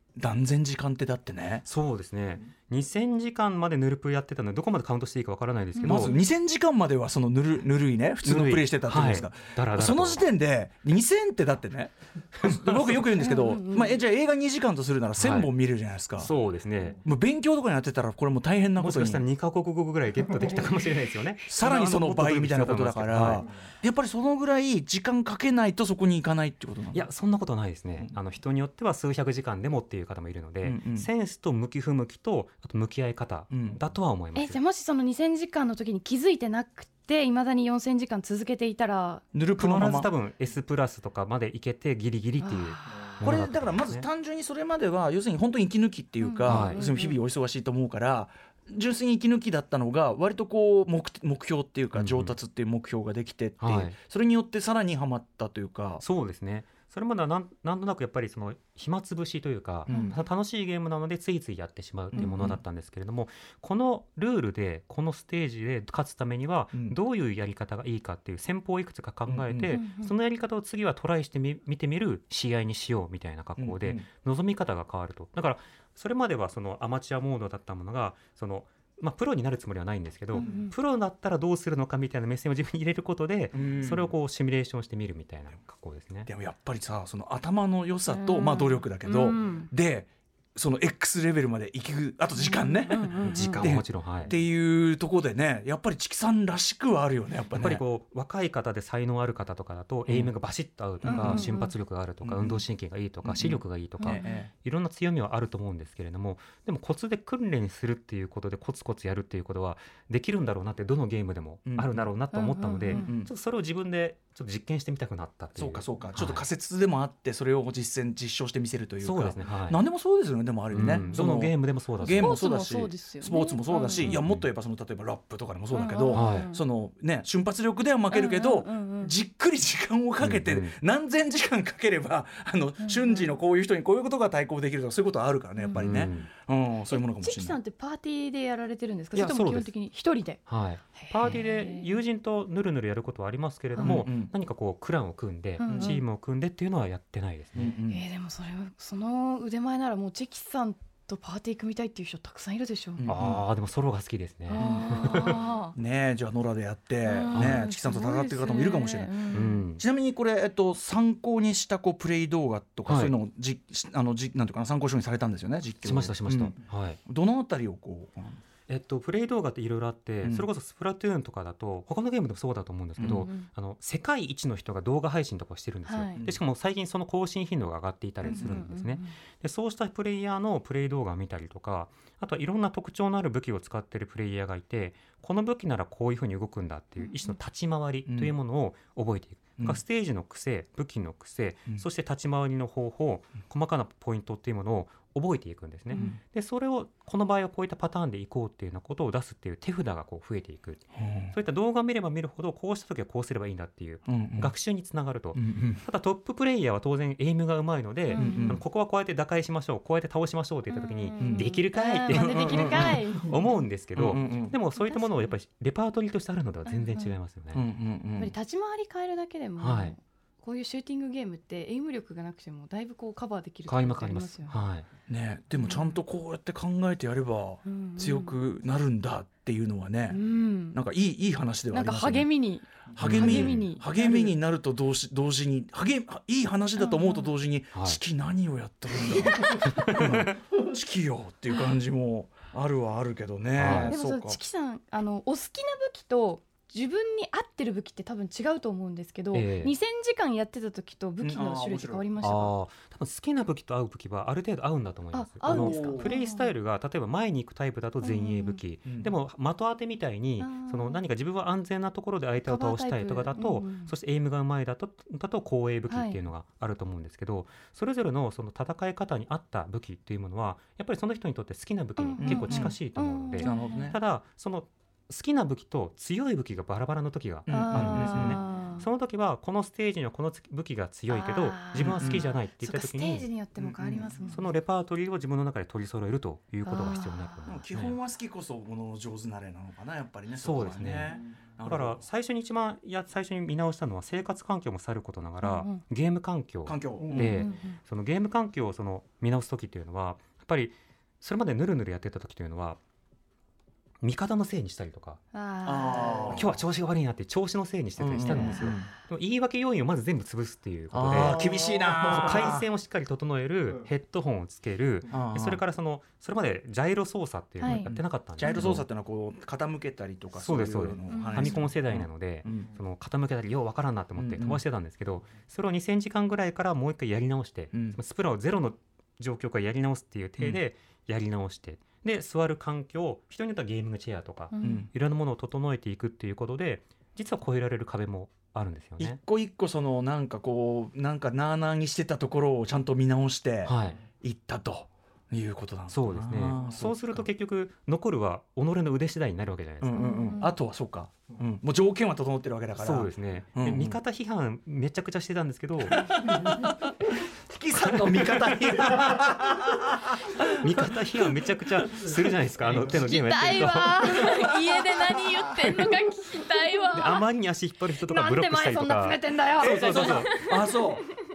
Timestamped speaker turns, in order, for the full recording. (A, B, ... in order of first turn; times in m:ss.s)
0:00.2-0:01.6 A
0:01.6-0:06.2 B
0:05.8-0:06.0 C
0:05.8-0:16.3 A
0:08.2-0:10.3 B
0:12.4-0:13.0 B
0:13.2-0:14.0 C
0:15.2-0:15.5 B
0:16.1-0:17.0 B
0:17.0-0:19.2 A
0:18.8-0:23.5 B
0:21.5-0:27.1 A
0:26.9-0:34.6 B
0:30.6-0:31.1 A
0:33.5-0:33.8 A
0:34.3-0:39.2 C
0:39.3-0:40.1 A
0:39.6-0:44.0 B
0:42.4-0:42.9 C
0:43.2-0:56.0 A
0:46.2-0:47.2 C
0:46.4-0:46.8 B
0:51.9-0:52.4 B
0:53.6-0:54.0 B
0:56.0-1:26.3 B
0:59.9-1:00.2 C
1:02.1-1:02.6 A
1:06.7-1:07.0 A
1:09.2-1:09.8 A
1:09.7-1:10.1 C
1:13.6-1:14.0 A
1:20.3-1:20.7 C
1:20.4-1:20.7 A
1:23.5-1:24.2 A
1:26.2-1:37.8 A
1:28.1-1:29.7 C
1:32.4-1:33.8 C
1:33.2-1:34.3 B
1:37.5-1:56.4 B
1:40.1-1:40.3 A
1:41.0-1:41.5 A
1:41.0-1:41.7 C
1:42.2-1:42.7 A
1:43.2-1:44.5 A
1:44.0-1:44.3 C
1:51.7-1:52.1 A
1:52.3-1:53.1 C
1:52.9-1:53.3 A
1:55.6-2:17.6 A
1:59.0-1:59.8 B
2:00.7-2:02.4 B
2:00.8-2:01.1 C
2:02.1-2:04.2 C
2:04.0-2:04.4 B
2:05.7-2:06.6 C
2:06.1-2:06.5 B
2:08.1-2:09.2 C
2:10.2-2:10.8 B
2:12.8-2:13.3 C
2:15.6-2:15.9 C
2:15.8-2:16.3 B
2:16.9-2:20.4 C
2:19.1-2:19.7 B
2:20.4-2:27.7 B
2:21.0-2:21.9 C
2:23.7-2:24.1 C
2:23.8-2:24.3 A
2:25.6-2:26.0 C
2:25.6-2:26.0 A
2:27.5-2:28.0 A
2:27.9-2:33.0 C
2:33.0-2:33.4 A
2:33.1-2:35.4 B
2:34.5-2:35.7 C
2:34.6-2:48.4 A
2:37.0-2:39.6 C
2:37.3-2:37.6 B
2:39.3-2:39.8 B
2:42.9-2:43.1 B
2:45.8-2:47.0 B
2:48.7-3:37.6 B
2:53.0-2:53.3 A
2:53.2-2:53.5 C
2:55.8-2:56.2 C
2:58.2-2:59.1 C
2:58.3-2:58.6 A
3:07.0-3:07.3 C
3:08.1-3:08.3 A
3:15.9-3:16.2 A
3:20.9-3:21.3 A
3:24.1-3:24.5 A
3:25.3-3:25.8 A
3:28.1-3:28.6 C
3:28.2-3:28.6 A
3:30.7-3:33.6 C
3:31.2-3:31.5 A
3:32.1-3:33.1 A
3:34.0-3:34.6 A
3:34.8-3:35.3 C
3:36.6-3:37.1 C
3:37.5-3:38.3 A
3:38.2-3:44.6 C
3:39.6-3:39.9 B
3:43.7-3:44.9 B
3:45.1-3:50.2 A
3:45.6-3:46.0 C
3:47.6-3:48.4 C
3:50.1-3:50.8 C
3:50.7-3:52.3 A
3:51.7-3:54.3 C
3:52.9-4:04.4 A
3:53.0-3:53.7 B
3:56.8-3:57.3 C
3:57.7-3:58.0 B
3:59.5-4:00.3 B
4:03.5-4:04.0 B
4:03.7-4:12.5 C
4:09.3-4:09.7 B
4:11.2-4:12.0 A
4:12.2-4:43.3 B
4:15.1-4:16.6 C
4:15.4-4:16.1 A
4:18.0-4:18.6 C
4:18.8-4:19.1 A
4:20.4-4:21.0 C
4:22.4-4:23.9 C
4:25.9-4:26.2 C
4:32.0-4:33.9 C
4:32.2-4:32.8 A
4:33.4-4:34.0 A
4:37.4-4:38.4 A
4:37.5-4:38.9 C
4:41.1-4:44.5 C
4:41.8-4:42.3 A
4:43.6-4:44.3 A
4:44.3-4:48.0 B
4:46.6-4:47.5 C
4:47.5-4:52.0 A
4:50.3-5:02.8 B
4:55.4-4:55.8 C
4:56.6-4:57.4 A
4:57.2-4:57.8 C
5:04.0-5:05.2 B
5:05.3-5:06.4 C
5:05.6-5:06.5 A
5:06.3-5:18.8 B
5:08.0-5:08.9 A
5:08.2-5:08.7 C
5:10.9-5:12.6 A
5:15.1-5:15.6 A
5:17.6-5:17.9 C
5:17.8-5:22.7 A
5:18.5-5:18.7 C
5:20.3-5:39.2 B
5:21.1-5:21.7 C
5:24.2-5:24.6 A
5:27.7-5:28.0 A
5:34.5-5:34.9 C
5:34.6-5:34.9 A
5:39.0-5:47.2 A
5:43.6-5:44.0 B
5:45.9-5:50.1 B
5:49.8-5:54.0 A
5:50.0-5:50.5 C
5:52.7-5:56.0 B
5:55.9-5:56.7 A
5:57.2-6:01.0 A
5:57.7-5:59.0 B
6:00.6-6:04.5 B
6:02.9-6:07.2 C
6:05.6-6:05.9 B
6:06.9-6:10.3 B
6:08.0-6:10.8 C
6:09.6-6:11.0 A